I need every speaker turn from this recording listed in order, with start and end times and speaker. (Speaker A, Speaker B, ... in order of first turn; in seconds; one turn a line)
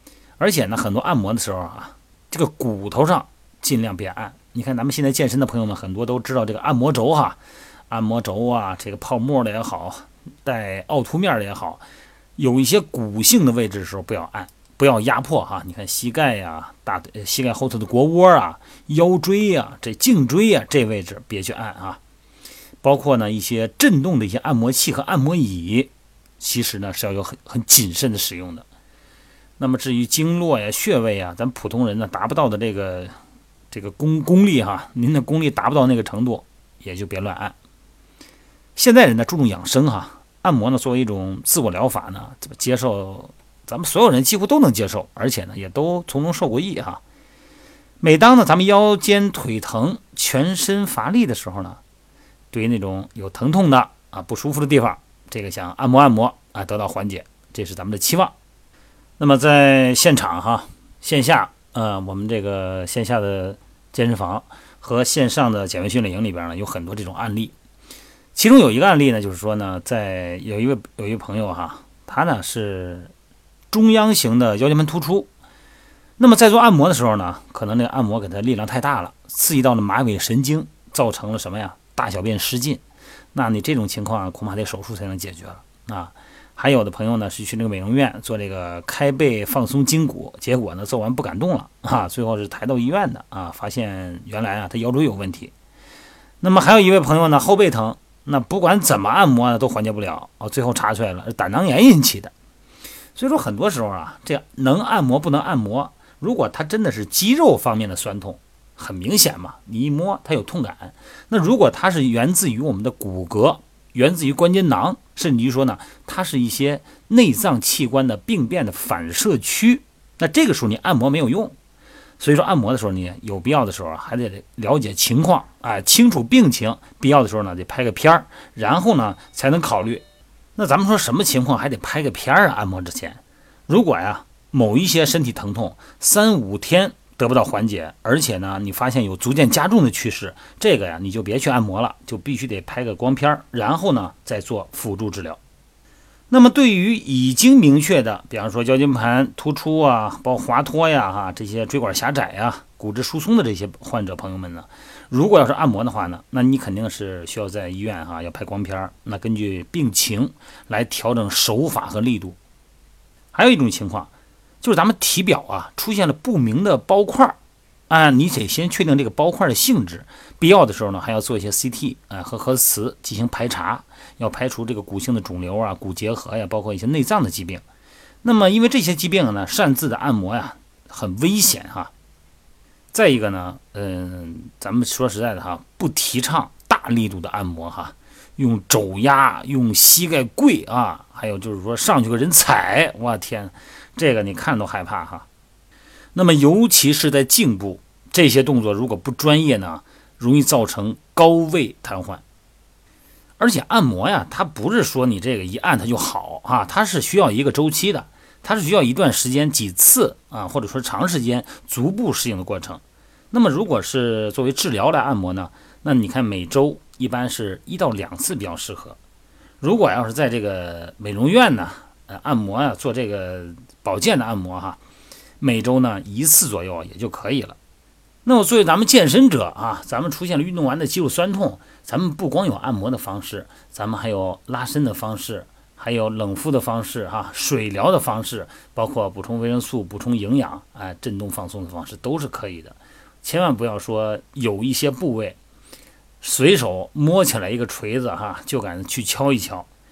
Speaker A: 0.4-7.4
Speaker A: 7.9-11.8
Speaker A: 12.4-22.0
Speaker A: 22.8-28.6
Speaker A: 29.6-33.1
Speaker A: 33.7-37.5
Speaker A: 38.8-47.0
Speaker A: 48.0-51.8
Speaker A: 52.5-58.3
Speaker A: 59.2-67.5
Speaker A: 68.3-73.1
Speaker A: 73.7-75.3
Speaker A: 76.2-82.8
Speaker A: 83.3-95.5
Speaker A: 96.4-102.3
Speaker A: 103.1-121.5
Speaker A: 122.2-130.0
Speaker A: 130.6-145.4
Speaker A: 146.3-162.4
Speaker A: 163.3-164.1
Speaker A: 164.6-167.4
Speaker A: 167.9-177.6
Speaker A: 178.2-181.9
Speaker A: 182.9-195.2
Speaker A: 196.1-202.2
Speaker A: 203.4-219.0
Speaker A: 219.6-224.8
Speaker A: 225.4-227.6
Speaker A: 228.2-245.4
Speaker A: 246.2-249.7